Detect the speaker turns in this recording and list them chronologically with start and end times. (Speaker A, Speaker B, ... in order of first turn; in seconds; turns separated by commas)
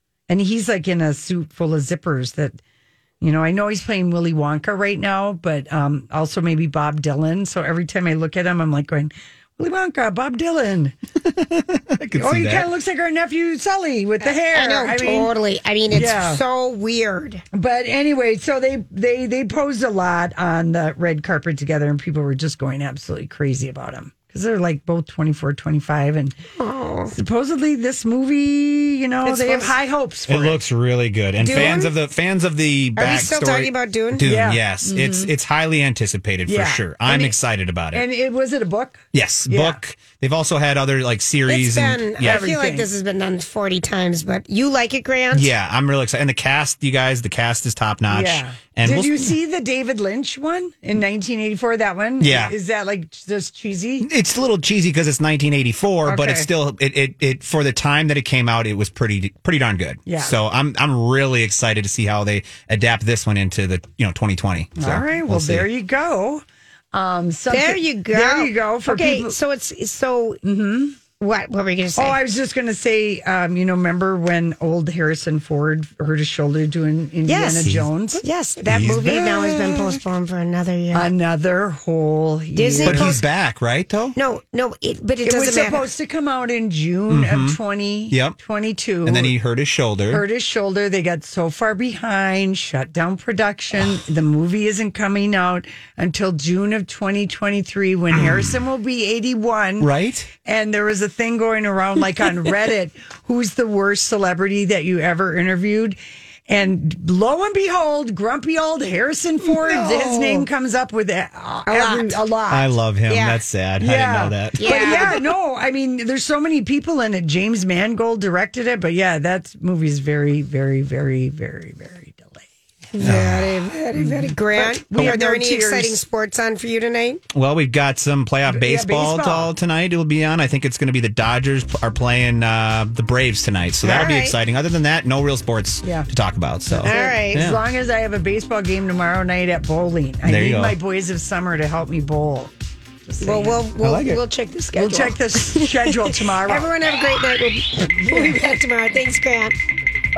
Speaker A: 0.3-2.6, Speaker A: 3.2-10.9, Speaker B: 11.2-12.7, Speaker A: 12.1-15.3, Speaker C: 14.2-17.4, Speaker A: 15.9-16.4, Speaker A: 17.5-26.4, Speaker C: 26.5-27.1, Speaker A: 27.1-30.6, Speaker C: 29.2-29.7, Speaker B: 30.3-38.0, Speaker C: 31.4-31.9, Speaker C: 33.0-34.2, Speaker A: 34.2-35.3, Speaker A: 36.5-37.3, Speaker A: 37.9-39.8, Speaker B: 39.1-42.5, Speaker C: 41.5-45.5, Speaker A: 42.2-42.9, Speaker B: 45.3-49.3, Speaker A: 48.1-54.1, Speaker B: 52.2-52.5, Speaker B: 54.0-65.6, Speaker A: 56.0-56.5, Speaker A: 60.0-60.4, Speaker A: 64.8-69.3, Speaker C: 67.5-70.4, Speaker A: 70.4-71.0, Speaker C: 71.2-72.2, Speaker A: 72.0-78.2, Speaker C: 77.3-81.1, Speaker B: 78.7-79.2, Speaker A: 78.8-80.0, Speaker A: 80.9-83.2, Speaker C: 82.5-83.2, Speaker B: 82.8-84.1, Speaker C: 84.2-85.8, Speaker A: 85.2-89.3, Speaker B: 87.1-87.6, Speaker B: 88.1-88.4, Speaker B: 89.0-90.2, Speaker A: 90.1-106.0, Speaker B: 98.1-98.5, Speaker B: 99.8-100.3, Speaker A: 106.5-112.7, Speaker C: 109.6-110.4, Speaker C: 111.7-112.2, Speaker B: 112.5-115.1, Speaker C: 113.1-113.4, Speaker A: 113.8-122.5, Speaker C: 114.6-115.3, Speaker C: 122.9-127.2, Speaker B: 123.0-123.5, Speaker A: 124.0-126.0, Speaker B: 127.3-137.6, Speaker A: 128.5-129.5, Speaker C: 133.8-134.3, Speaker A: 133.8-134.1, Speaker A: 135.8-136.1, Speaker A: 136.7-142.5, Speaker C: 136.8-137.4, Speaker B: 140.2-140.7, Speaker A: 143.1-143.6, Speaker C: 143.2-149.6, Speaker B: 143.8-144.2, Speaker A: 144.7-146.7, Speaker A: 148.0-148.4